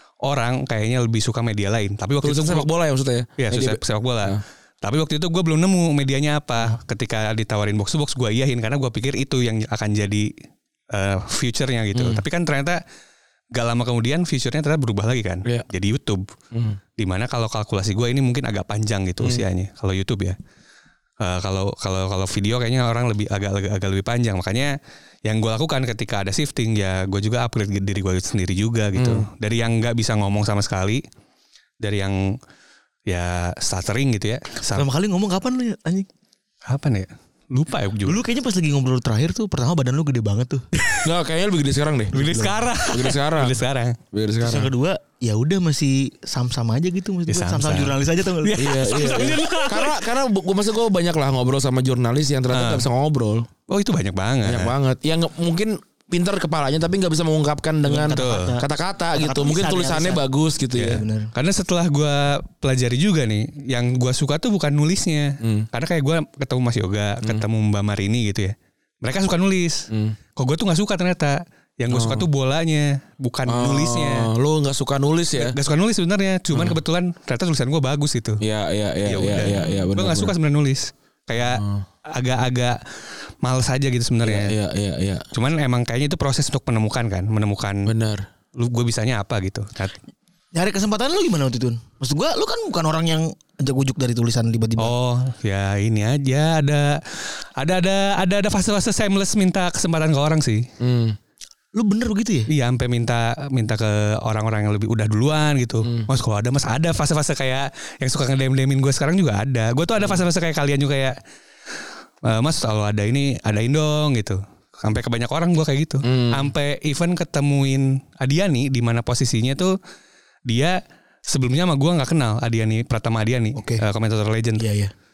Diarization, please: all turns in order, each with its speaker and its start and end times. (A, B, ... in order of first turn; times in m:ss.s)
0:00.2-0:02.7 A
0:02.2-0:04.4 B
0:03.4-0:10.3 A
0:10.9-0:12.8 A
0:11.9-0:12.2 B
0:13.5-0:16.2 A
0:16.5-0:16.8 B
0:17.0-0:20.4 A
0:21.2-0:31.0 A
0:29.0-0:29.2 B
0:31.8-0:32.4 A
0:33.1-0:34.9 A
0:34.7-0:36.1 C
0:36.7-0:38.2 A
0:38.1-0:40.6 C
0:41.0-0:43.6 B
0:42.1-0:44.0 A
0:44.1-0:44.7 B
0:44.4-0:49.3 C
0:47.3-0:50.0 A
0:48.6-0:53.5 B
0:52.5-0:52.9 A
0:53.7-0:54.7 A
0:54.4-1:01.0 B
0:57.8-1:00.2 C
0:58.1-0:58.5 A
1:00.8-1:14.3 A
1:00.8-1:01.3 C
1:05.4-1:05.7 B
1:09.9-1:10.2 B
1:11.9-1:12.3 B
1:13.5-1:15.6 B
1:15.4-1:18.4 A
1:16.5-1:16.8 B
1:18.4-1:20.3 B
1:19.1-1:22.8 A
1:19.6-1:19.9 C
1:21.4-1:21.8 B
1:23.4-1:24.5 A
1:24.2-1:25.2 B
1:25.3-1:27.9 A
1:27.9-1:28.2 B
1:28.6-1:29.9 A
1:30.5-1:34.9 C
1:34.8-1:40.7 A
1:40.8-1:41.2 B
1:41.7-1:42.5 C
1:42.5-1:51.2 A
1:45.8-1:46.1 B
1:52.2-1:59.8 A
1:56.0-1:56.5 B
2:00.5-2:04.6 A
2:03.6-2:03.8 C
2:04.6-2:04.9 C